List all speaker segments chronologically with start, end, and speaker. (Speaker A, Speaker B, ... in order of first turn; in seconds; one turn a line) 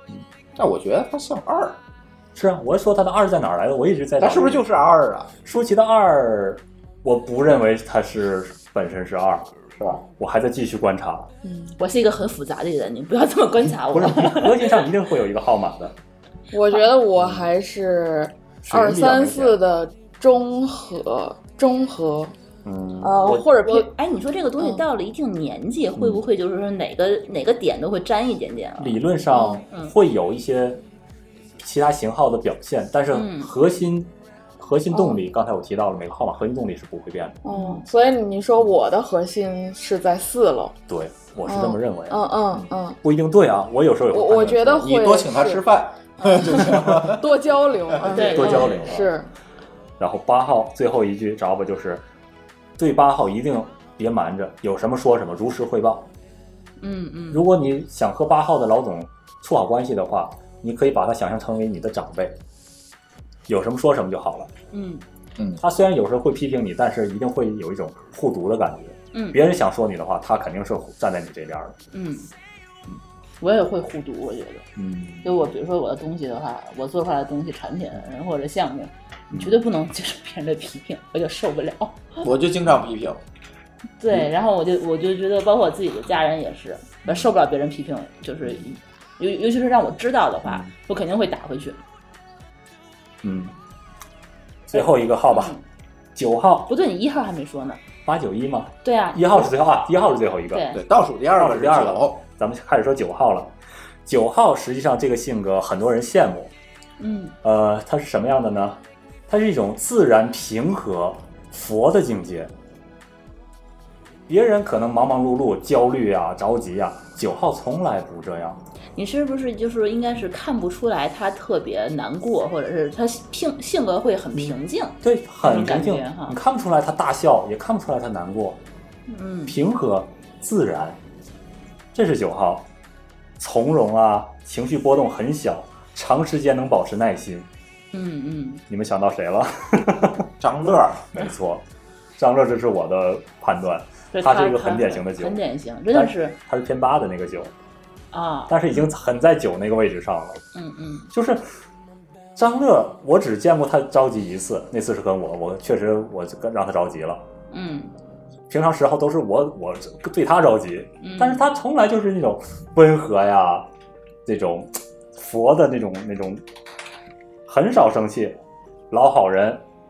Speaker A: 0.6-1.8
Speaker B: 2.3-4.7
Speaker A: 4.2-5.3
Speaker B: 5.4-11.3
Speaker C: 11.4-11.7
Speaker D: 11.8-14.8
Speaker B: 13.9-15.9
Speaker C: 16.5-22.3
Speaker B: 17.1-17.5
Speaker B: 18.6-19.6
Speaker B: 22.6-23.5
Speaker C: 23.0-23.9
Speaker D: 23.3-29.0
Speaker B: 28.8-30.8
Speaker C: 29.3-29.6
Speaker B: 31.6-37.4
Speaker D: 33.1-33.5
Speaker C: 34.9-35.2
Speaker C: 37.4-40.7
Speaker D: 37.5-37.8
Speaker B: 40.9-44.9
Speaker C: 41.5-43.0
Speaker C: 44.1-45.6
Speaker A: 44.4-47.4
Speaker C: 46.2-49.3
Speaker B: 48.1-49.1
Speaker D: 48.1-48.9
Speaker B: 50.0-52.0
Speaker B: 52.8-56.1
Speaker D: 56.8-57.4
Speaker B: 57.3-62.4
Speaker B: 63.5-64.5
Speaker D: 64.7-65.0
Speaker B: 65.6-71.7
Speaker D: 69.1-69.4
Speaker D: 71.9-72.3
Speaker D: 73.4-74.6
Speaker B: 74.8-75.3
Speaker D: 75.2-82.2
Speaker B: 79.3-79.6
Speaker A: 82.2-83.2
Speaker D: 84.0-91.8
Speaker B: 90.4-90.7
Speaker B: 93.2-93.5
Speaker B: 94.7-95.5
Speaker D: 94.7-95.6
Speaker B: 96.2-96.7
Speaker D: 96.7-97.8
Speaker B: 98.0-100.6
Speaker D: 98.8-99.5
Speaker D: 100.5-100.8
Speaker A: 100.7-102.2
Speaker B: 101.3-103.5
Speaker B: 104.0-106.5
Speaker D: 107.0-107.3
Speaker B: 107.4-112.5
Speaker B: 114.3-118.6
Speaker D: 119.0-126.4
Speaker B: 124.4-128.6
Speaker D: 129.1-129.6
Speaker B: 129.5-131.0
Speaker B: 131.9-132.7
Speaker B: 133.4-137.5
Speaker D: 137.9-138.6
Speaker B: 138.7-141.6
Speaker A: 140.4-141.1
Speaker B: 142.2-145.4
Speaker D: 144.1-146.4
Speaker B: 145.9-147.5
Speaker D: 148.1-148.8
Speaker B: 148.5-150.4
Speaker D: 150.5-151.1
Speaker B: 151.1-151.4
Speaker B: 152.3-157.2
Speaker D: 157.5-157.9
Speaker B: 158.5-163.7
Speaker D: 161.0-161.4
Speaker B: 164.2-166.4
Speaker B: 167.5-168.4
Speaker B: 168.9-169.6